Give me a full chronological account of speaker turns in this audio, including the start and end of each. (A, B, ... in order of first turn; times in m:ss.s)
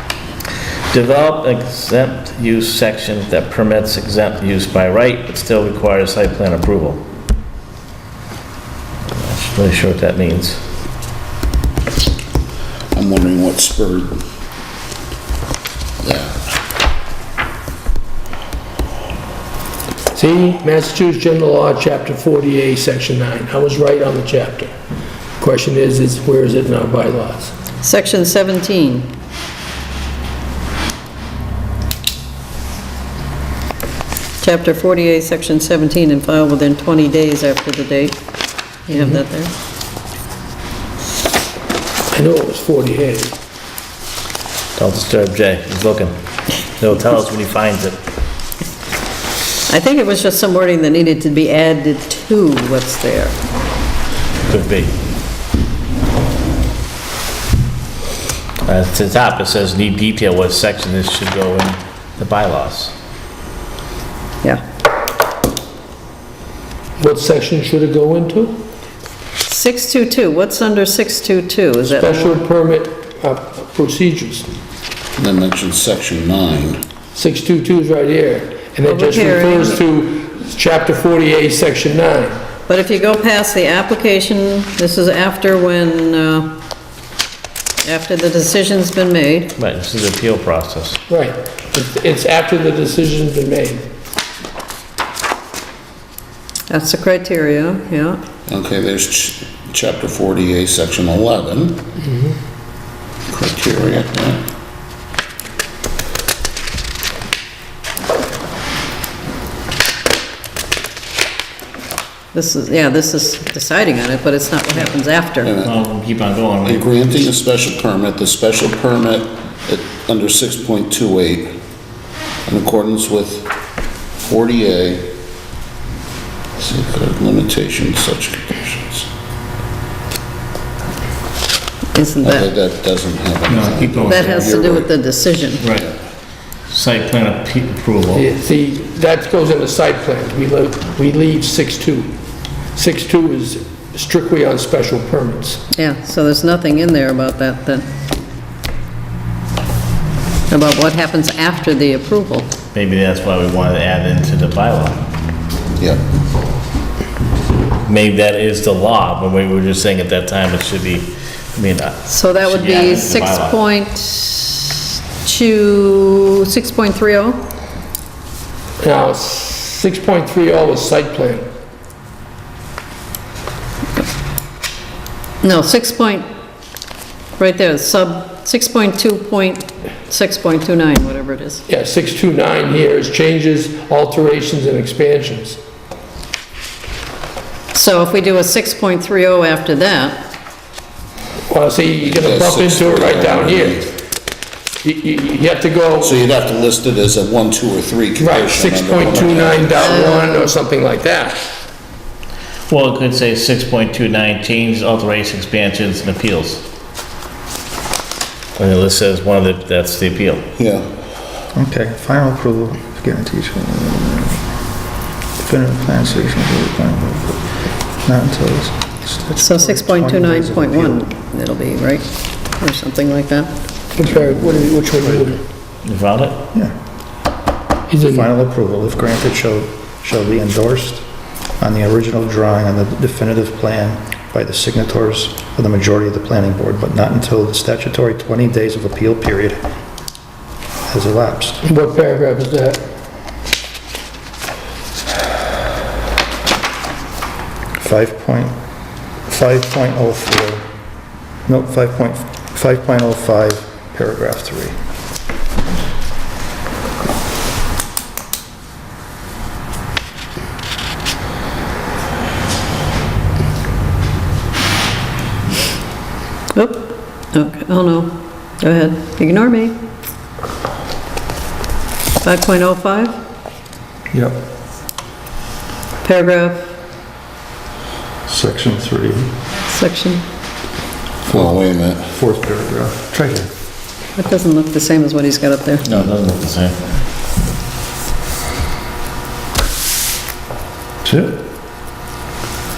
0:00.9-0:07.0 A
0:09.1-0:10.6 A
0:12.9-0:14.2 B
0:16.0-0:16.3 B
0:20.1-0:24.7 C
0:25.4-0:27.5 C
0:27.8-0:29.1 D
0:34.4-0:38.2 D
0:38.9-0:39.5 D
0:38.9-0:39.2 C
0:42.1-0:43.4 C
0:44.8-0:48.0 A
0:49.7-0:53.4 D
0:54.5-0:54.9 A
0:58.7-1:02.9 A
1:07.0-1:08.6 C
1:09.5-1:12.4 D
1:11.8-1:14.5 C
1:15.2-1:16.8 B
1:17.2-1:22.5 C
1:18.8-1:19.8 D
1:22.7-1:26.5 D
1:27.8-1:29.5 D
1:29.6-1:31.0 A
1:31.1-1:33.9 C
1:36.7-1:38.2 D
1:38.5-1:41.8 B
1:43.3-1:44.4 B
1:52.3-1:55.5 D
1:55.4-1:55.8 B
1:55.6-1:56.8 A
1:56.6-2:01.5 B
2:02.5-2:03.5 B
2:04.2-2:05.1 B
2:06.6-2:09.1 B
2:11.9-2:12.5 D
2:12.2-2:14.9 B
2:13.5-2:14.6 A
2:14.0-2:15.6 D
2:15.6-2:15.8 A
2:16.7-2:18.3 A
2:18.1-2:22.1 C
2:22.8-2:25.6 C
2:25.7-2:27.9 D
2:30.5-2:32.5 D
2:32.7-2:35.0 A
2:37.8-2:43.6 A
2:42.1-2:47.4 D
2:48.8-2:51.4 C
2:55.4-2:56.3 D
2:57.4-3:01.6 D
3:01.7-3:05.6 C
3:07.7-3:10.2 D
3:11.5-3:13.8 C
3:12.0-3:14.0 B
3:14.8-3:16.2 C
3:16.0-3:20.1 B
3:18.2-3:21.5 C
3:19.9-3:20.5 D
3:22.7-3:26.6 A
3:28.6-3:30.5 A
3:30.6-3:30.9 B
3:31.5-3:34.5 E
3:35.4-3:41.0 E
3:39.4-3:43.5 D
3:44.0-3:45.4 C
3:45.8-3:46.4 A
3:47.9-3:48.3 C
3:48.0-3:51.0 E
3:51.6-3:59.6 E
4:00.9-4:01.6 E
4:01.6-4:02.8 C
4:07.8-4:08.6 E
4:09.3-4:10.7 E
4:11.5-4:14.8 E
4:26.5-4:29.8 D
4:32.2-4:33.2 D
4:34.1-4:34.4 E
4:36.0-4:36.7 D
4:38.3-4:39.4 E
4:39.6-4:40.2 D
4:41.3-4:42.1 B
4:41.3-4:43.5 E
4:44.2-4:45.9 D
4:45.8-4:46.8 A
4:51.0-4:51.4 E